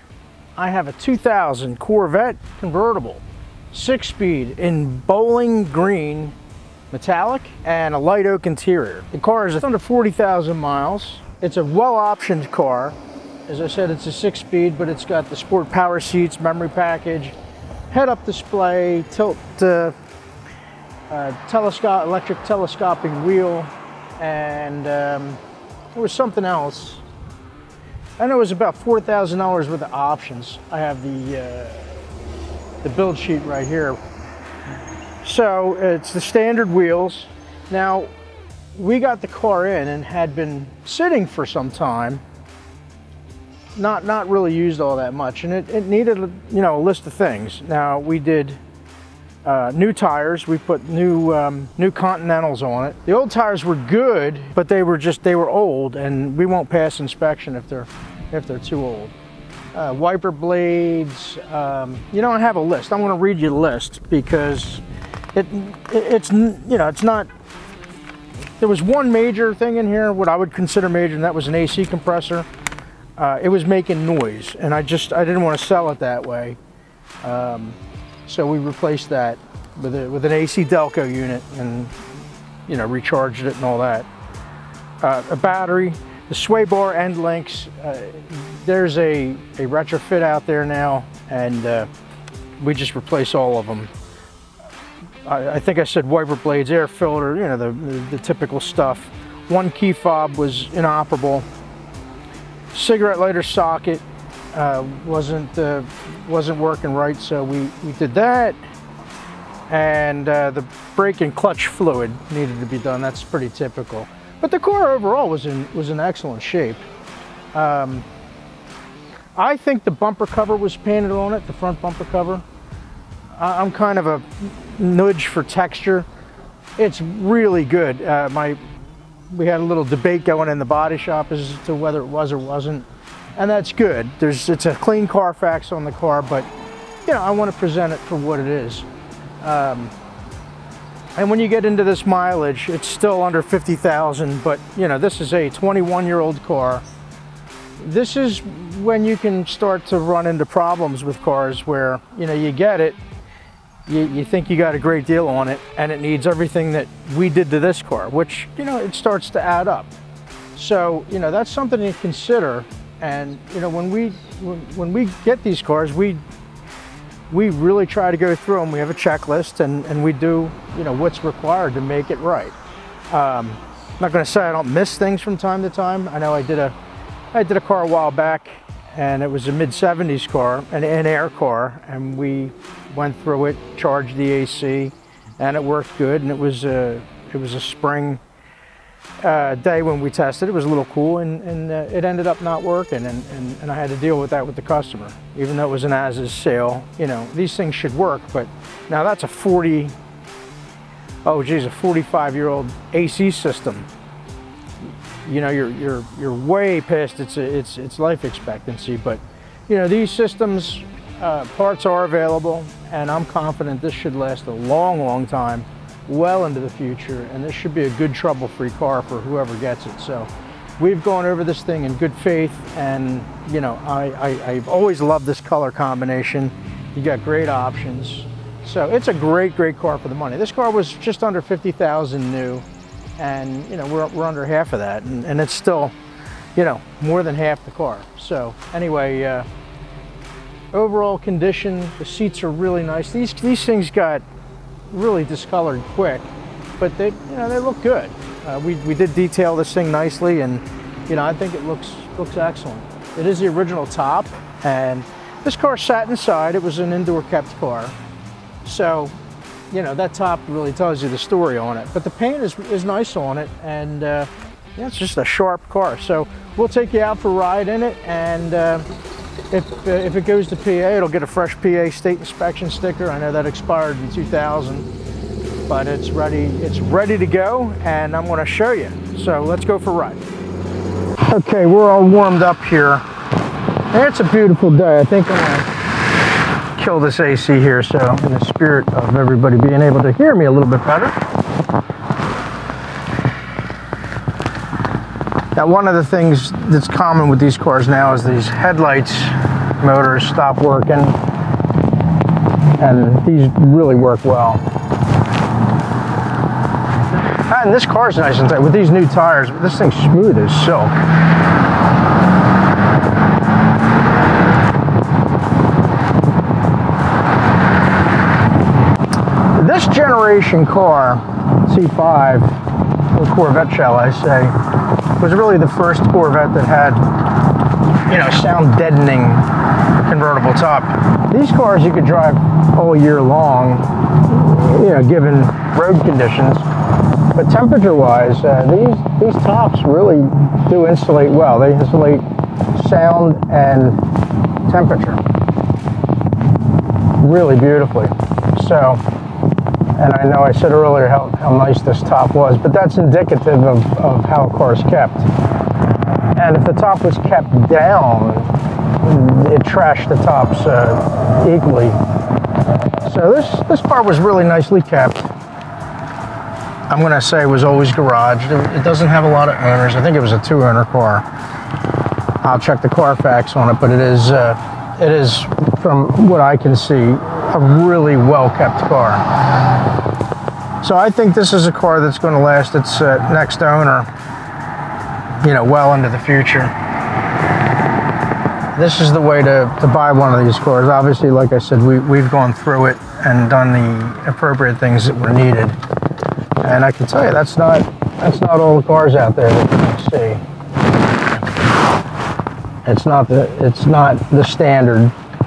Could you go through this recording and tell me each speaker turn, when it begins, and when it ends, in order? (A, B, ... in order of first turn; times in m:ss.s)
0:00.6-0:06.3 A
0:06.9-0:13.0 A
0:13.5-0:17.3 A
0:17.9-0:19.9 A
0:21.1-0:25.4 A
0:25.9-0:27.0 A
0:28.2-0:31.9 A
0:32.8-0:34.0 A
0:35.2-0:38.1 A
0:38.7-0:42.2 A
0:43.7-0:48.6 A
0:49.4-0:59.1 A
0:59.7-1:07.3 A
1:08.6-1:12.4 A
1:13.2-1:16.6 A
1:17.2-1:21.9 A
1:22.7-1:24.1 A
1:25.0-1:31.9 A
1:32.6-1:33.9 A
1:35.2-1:41.5 A
1:42.7-1:48.6 A
1:49.7-1:56.8 A
1:57.5-1:58.0 A
1:59.4-2:02.4 A
2:03.4-2:06.1 A
2:06.8-2:08.6 A
2:09.3-2:16.5 A
2:17.0-2:18.9 A
2:19.4-2:19.9 A
2:21.2-2:26.8 A
2:27.8-2:33.0 A
2:33.9-2:39.9 A
2:40.5-2:46.2 A
2:47.3-2:52.6 A
2:53.1-2:56.7 A
2:57.3-3:08.2 A
3:09.2-3:19.9 A
3:21.2-3:23.9 A
3:25.2-3:52.6 A
3:53.2-3:55.9 A
3:56.5-3:59.5 A
4:00.7-4:04.2 A
4:04.9-4:18.0 A
4:18.6-4:19.2 A
4:19.7-4:28.9 A
4:29.5-4:34.9 A
4:35.7-4:40.2 A
4:41.2-4:43.0 A
4:43.9-4:45.7 A
4:46.8-4:51.2 A
4:55.6-5:01.2 A
5:02.8-5:04.6 A
5:07.4-5:11.0 A
5:19.5-5:24.5 A
5:25.2-5:27.0 A
5:28.1-5:29.5 A
5:30.0-5:36.6 A
5:37.3-5:44.0 A
5:44.7-5:45.2 A
5:47.2-5:49.0 A
5:50.0-5:55.3 A
5:56.3-6:02.0 A
6:03.0-6:05.3 A
6:06.9-6:11.2 A
6:12.4-6:19.3 A
6:20.8-6:24.1 A
6:25.4-6:26.7 A
6:28.7-6:35.8 A
6:36.6-6:40.4 A
6:42.8-6:45.1 A